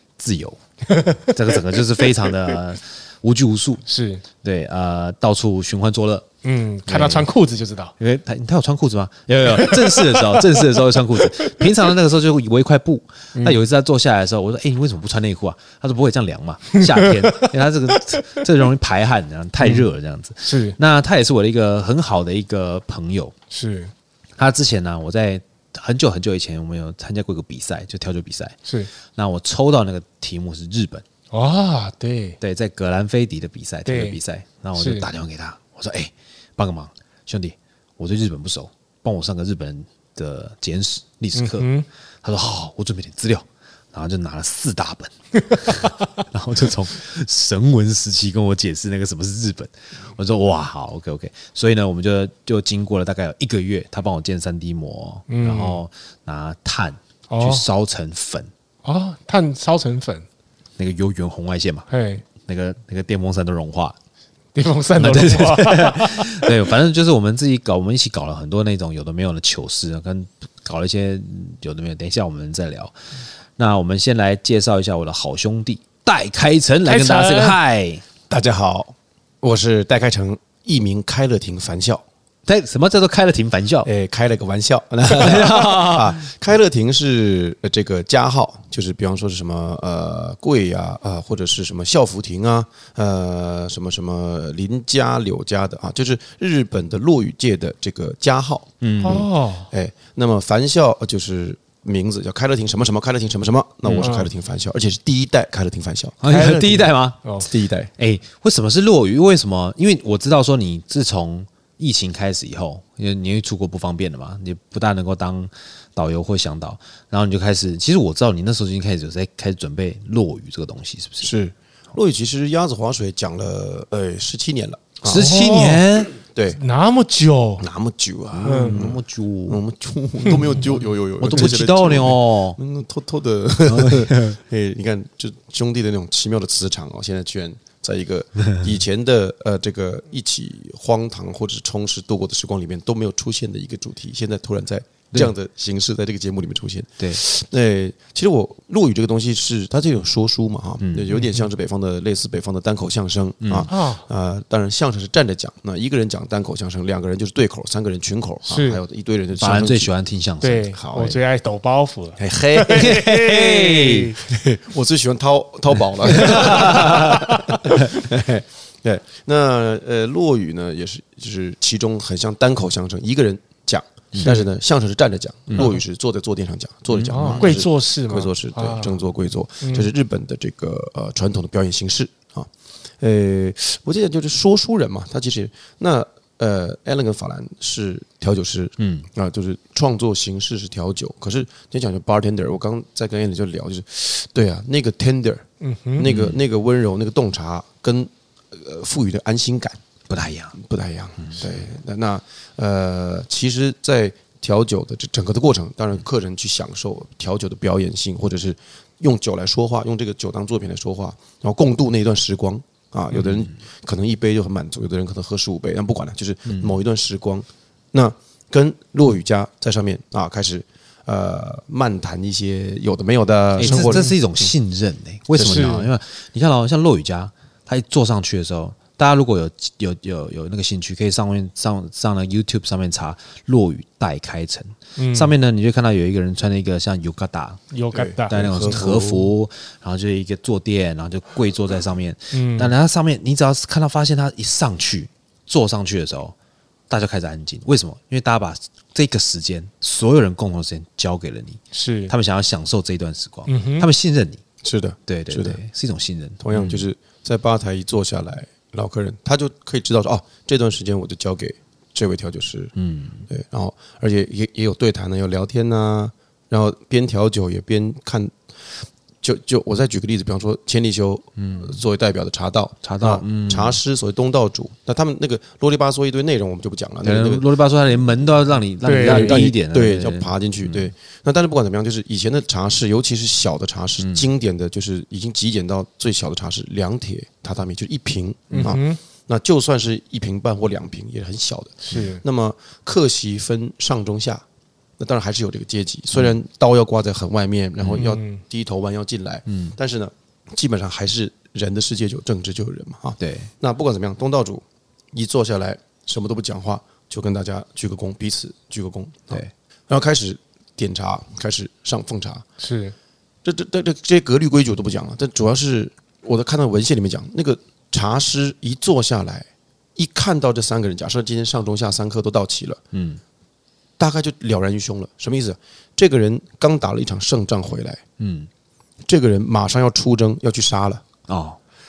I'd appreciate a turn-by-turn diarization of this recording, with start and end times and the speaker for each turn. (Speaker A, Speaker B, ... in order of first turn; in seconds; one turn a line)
Speaker A: 0.2-0.6
Speaker B: 0.9-2.6
Speaker A: 1.2-3.8
Speaker B: 3.9-4.2
Speaker A: 4.4-6.3
Speaker B: 6.4-7.9
Speaker A: 6.8-7.3
Speaker A: 8.0-23.3
Speaker B: 9.5-10.6
Speaker B: 11.2-11.7
Speaker B: 16.8-18.4
Speaker B: 19.6-19.9
Speaker B: 20.4-20.8
Speaker B: 23.5-23.9
Speaker A: 24.4-28.6
Speaker A: 29.1-31.0
Speaker B: 31.3-32.4
Speaker A: 32.4-41.7
Speaker B: 33.9-34.2
Speaker B: 34.7-35.1
Speaker B: 41.3-41.9
Speaker A: 42.2-58.5
Speaker B: 55.3-55.8
Speaker B: 57.3-57.6
Speaker B: 58.8-60.2
Speaker A: 60.8-64.0
Speaker B: 61.9-62.2
Speaker B: 64.5-66.6
Speaker A: 65.0-72.9
Speaker A: 73.6-78.0
Speaker B: 76.8-77.6
Speaker C: 78.3-82.0
Speaker A: 82.5-83.9
Speaker C: 83.8-106.2
Speaker A: 85.1-86.2
Speaker A: 98.8-99.3
Speaker B: 99.0-99.7
Speaker A: 103.8-104.1
Speaker B: 104.0-104.3
Speaker A: 106.2-107.2
Speaker B: 106.2-107.5
Speaker C: 107.4-107.9
Speaker A: 108.0-121.3
Speaker C: 121.2-125.3
Speaker A: 125.0-126.1
Speaker B: 125.1-125.8
Speaker C: 126.3-126.6
Speaker B: 126.5-127.6
Speaker C: 127.6-159.9
Speaker A: 128.3-129.6
Speaker B: 128.4-128.9
Speaker A: 130.3-132.6
Speaker A: 133.7-134.4
Speaker A: 150.8-151.1
Speaker B: 151.1-151.5
Speaker A: 153.4-153.7
Speaker B: 153.7-154.0
Speaker B: 158.5-158.8
Speaker A: 159.4-161.2
Speaker B: 160.4-164.2
Speaker C: 160.8-161.1
Speaker C: 162.2-163.1
Speaker A: 162.6-164.2
Speaker C: 164.3-195.4
Speaker A: 166.2-167.2
Speaker A: 175.5-175.7
Speaker A: 176.9-177.6
Speaker B: 177.1-179.0
Speaker B: 179.6-179.9
Speaker A: 188.8-189.1
Speaker B: 195.6-196.1
Speaker C: 196.0-199.8
Speaker A: 196.0-196.4
Speaker A: 200.1-200.5
Speaker C: 200.5-224.5
Speaker A: 213.1-213.5
Speaker A: 216.5-216.7
Speaker A: 223.6-237.6
Speaker C: 225.3-225.7
Speaker B: 225.4-225.9
Speaker B: 234.9-235.3
Speaker B: 237.7-238.8
Speaker C: 237.9-239.2
Speaker A: 238.3-246.3
Speaker B: 242.3-242.7
Speaker A: 246.9-254.4
Speaker B: 251.7-252.1
Speaker B: 253.4-253.9
Speaker C: 254.6-255.6
Speaker A: 255.1-256.8
Speaker C: 256.4-262.7
Speaker A: 262.8-263.2
Speaker C: 263.3-268.3
Speaker C: 269.2-277.4
Speaker A: 271.4-271.8
Speaker A: 272.8-273.8
Speaker A: 277.0-280.9
Speaker B: 278.8-279.5
Speaker C: 279.0-294.4
Speaker A: 284.0-284.2
Speaker A: 288.5-288.8
Speaker B: 288.5-289.0
Speaker B: 291.9-292.2
Speaker C: 295.0-312.4
Speaker A: 297.8-298.1
Speaker B: 297.9-298.4
Speaker A: 299.5-299.7
Speaker A: 303.2-303.5
Speaker B: 312.6-312.9
Speaker C: 313.4-322.8
Speaker A: 322.9-323.2
Speaker C: 324.0-328.0
Speaker A: 328.2-328.5
Speaker C: 329.1-331.0
Speaker A: 331.3-331.6